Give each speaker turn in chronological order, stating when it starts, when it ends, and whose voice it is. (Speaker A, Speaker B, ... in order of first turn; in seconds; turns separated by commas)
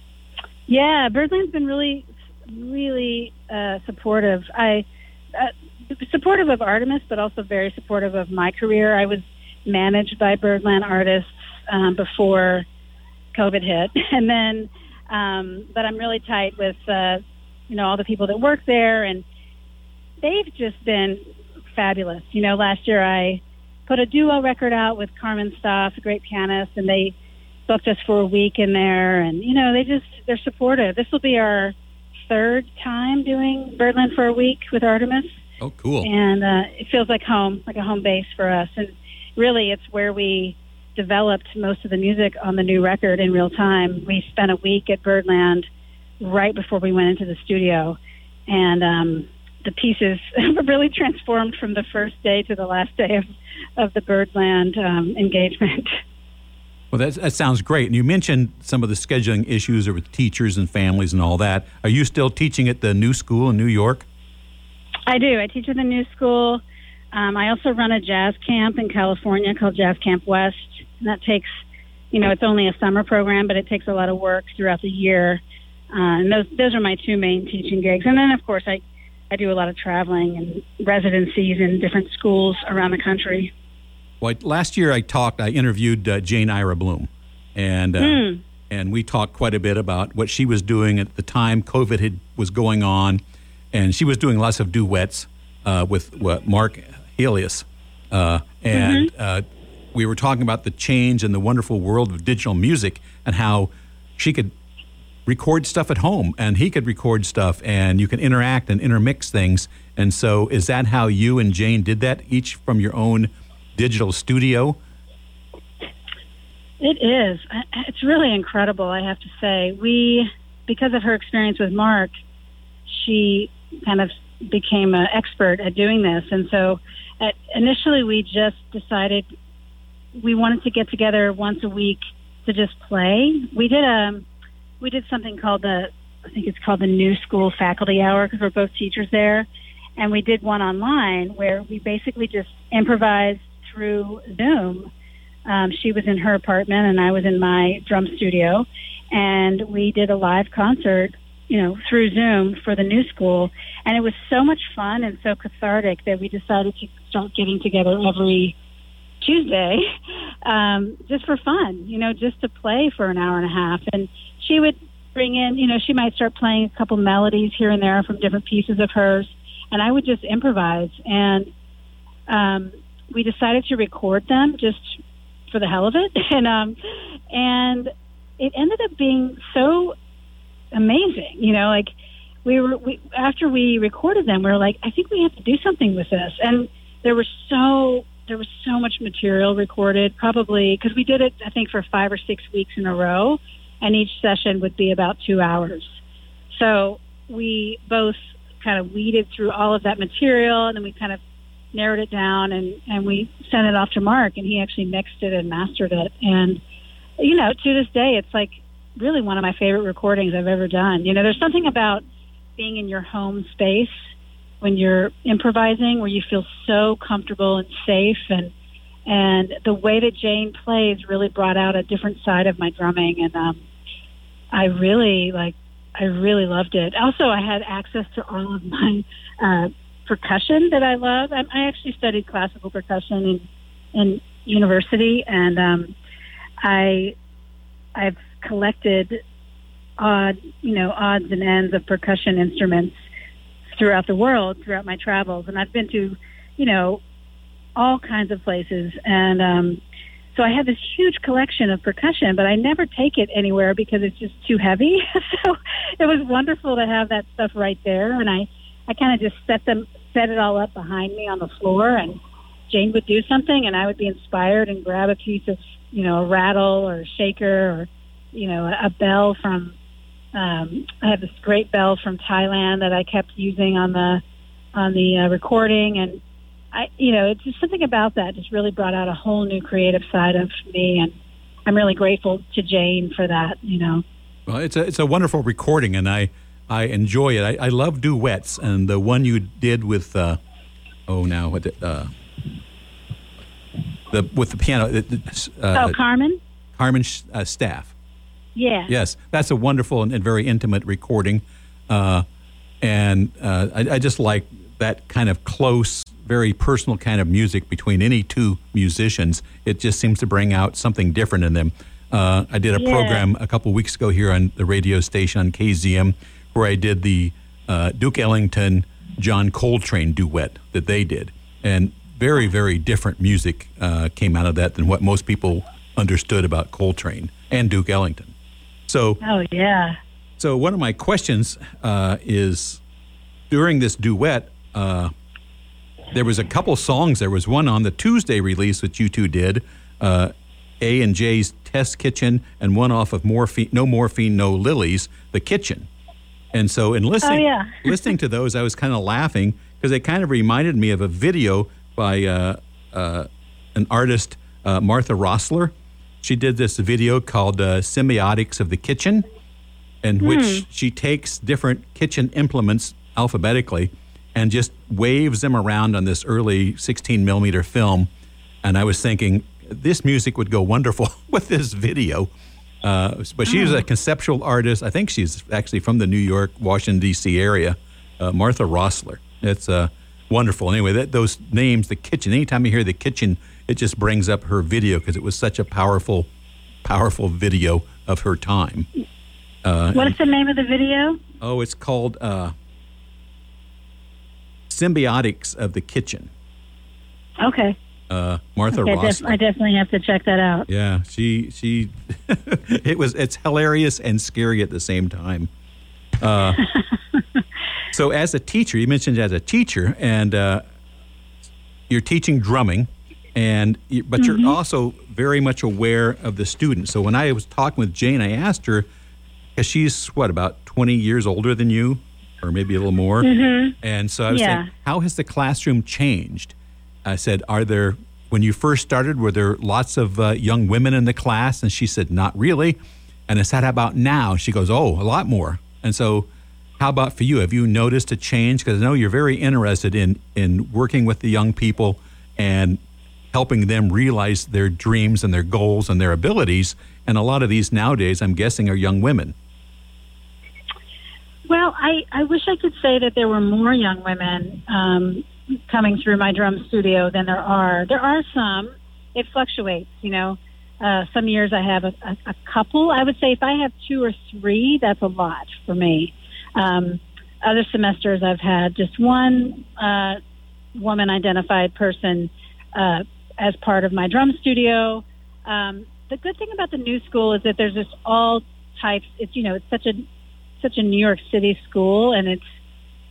Speaker A: 0.7-12.7, Speaker A: 13.3-19.2, Speaker A: 20.2-21.2, Speaker A: 21.8-27.1, Speaker A: 27.7-35.3, Speaker B: 35.6-36.1, Speaker A: 36.0-45.6, Speaker A: 46.2-53.2, Speaker A: 53.8-56.0, Speaker B: 56.9-64.0, Speaker A: 65.1-66.6, Speaker A: 67.1-71.5, Speaker A: 72.1-75.4, Speaker A: 75.9-83.5, Speaker B: 84.2-93.2, Speaker A: 88.0-88.4, Speaker B: 93.7-104.5, Speaker A: 98.7-99.1, Speaker B: 105.2-114.8, Speaker A: 116.8-122.1, Speaker A: 122.9-129.3, Speaker A: 130.2-134.2, Speaker A: 134.8-144.9, Speaker A: 145.4-158.6, Speaker A: 159.2-159.8, Speaker A: 160.4-171.5, Speaker A: 172.3-175.0, Speaker A: 175.5-176.8, Speaker A: 177.3-179.9, Speaker A: 180.7-181.9, Speaker A: 182.4-195.9, Speaker A: 196.5-201.2, Speaker A: 201.7-206.6, Speaker A: 207.2-212.0, Speaker A: 212.6-214.0, Speaker A: 214.6-218.5, Speaker A: 219.1-223.6, Speaker A: 224.5-235.9, Speaker A: 236.6-237.1, Speaker A: 237.9-239.2, Speaker A: 240.0-243.0, Speaker A: 243.7-247.0, Speaker A: 247.8-249.8, Speaker A: 250.3-262.2, Speaker A: 262.7-269.8, Speaker A: 270.3-274.2, Speaker A: 274.7-276.2, Speaker A: 276.7-281.1, Speaker A: 281.6-284.0, Speaker B: 284.5-290.4, Speaker B: 291.1-292.1, Speaker B: 294.1-296.0, Speaker A: 295.7-296.4, Speaker B: 296.8-297.9, Speaker A: 298.6-298.9, Speaker B: 298.9-302.2, Speaker B: 302.8-328.3, Speaker A: 312.7-313.2, Speaker B: 328.9-329.2, Speaker A: 329.2-330.0, Speaker B: 330.4-332.8, Speaker B: 333.5-335.1, Speaker B: 336.1-345.9, Speaker B: 346.5-359.2, Speaker A: 347.2-347.9, Speaker B: 360.0-368.1, Speaker A: 360.2-360.6, Speaker B: 368.6-372.3, Speaker B: 372.8-386.3, Speaker A: 373.4-373.8, Speaker B: 386.8-388.9, Speaker B: 389.6-390.1, Speaker A: 389.9-391.2, Speaker B: 391.4-392.5, Speaker B: 394.7-396.3, Speaker A: 397.4-397.8, Speaker B: 398.1-399.4, Speaker A: 398.7-400.7, Speaker B: 400.7-405.5, Speaker B: 406.2-406.6, Speaker B: 407.9-410.6, Speaker B: 411.9-418.9, Speaker A: 414.2-414.6, Speaker B: 419.6-423.3, Speaker A: 423.2-423.7, Speaker B: 423.8-426.5, Speaker A: 424.3-424.7, Speaker B: 427.0-442.8, Speaker B: 443.3-449.3, Speaker A: 451.5-470.2, Speaker A: 470.7-480.0, Speaker A: 480.6-482.4